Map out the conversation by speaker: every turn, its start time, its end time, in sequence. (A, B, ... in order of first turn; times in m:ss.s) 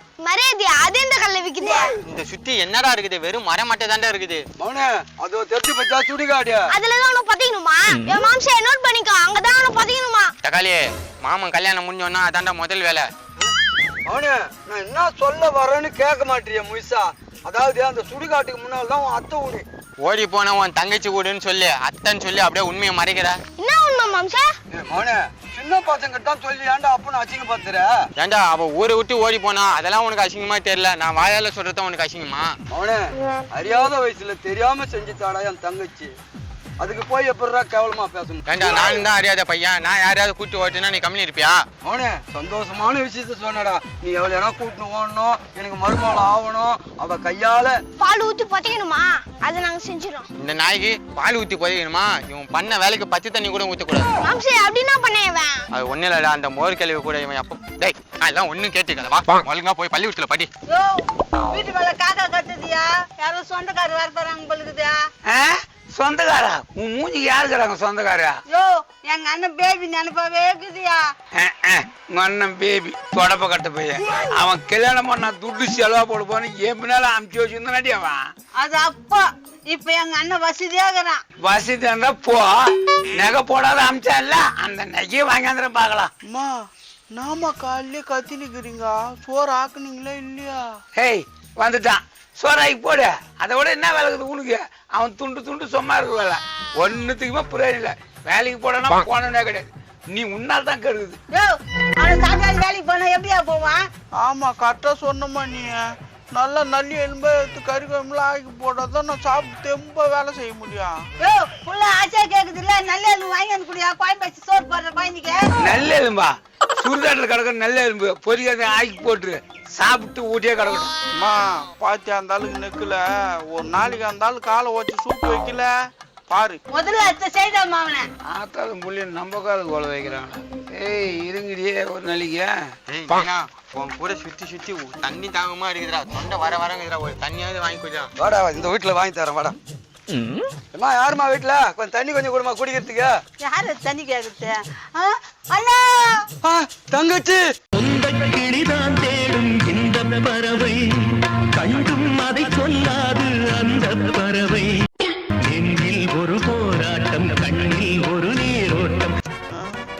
0:00.2-0:01.9 A
0:02.0-0:04.5 B
0:04.6-0:06.6 C
0:06.7-0:10.3 A
0:10.4-0:13.1 B
0:14.1-0:19.6 C
0:20.0-0:23.4 B
0:23.6-0:24.5 A
0:24.7-0:27.9 C
0:28.2-0:32.5 B
0:32.7-0:36.1 C
0:36.8-0:38.4 C
0:38.5-0:41.6 B
0:41.8-0:47.7 C
0:48.0-0:50.3 A
0:50.4-0:54.1 B
0:54.2-0:55.6 A
0:55.7-1:00.5 B
1:00.7-1:05.0 D
1:05.3-1:08.4 E
1:08.5-1:11.1 D
1:11.4-1:18.2 E
1:18.6-1:21.2 D
1:21.4-1:22.5 E
1:23.1-1:26.1 E
1:26.3-1:30.8 F
1:31.0-1:41.2 E
1:41.3-1:43.9 D
1:44.2-1:45.8 F
1:46.4-1:51.0 F
1:51.2-1:55.5 D
1:55.6-2:00.9 E
2:01.2-2:05.7 F
2:06.3-2:06.6 F
2:06.7-2:08.1 D
2:08.3-2:12.5 E
2:12.9-2:18.1 B
2:18.2-2:19.6 C
2:20.7-2:23.1 C
2:23.4-2:26.3 D
2:26.4-2:27.4 C
2:27.8-2:30.9 G
2:31.5-2:34.7 G
2:35.5-2:39.1 G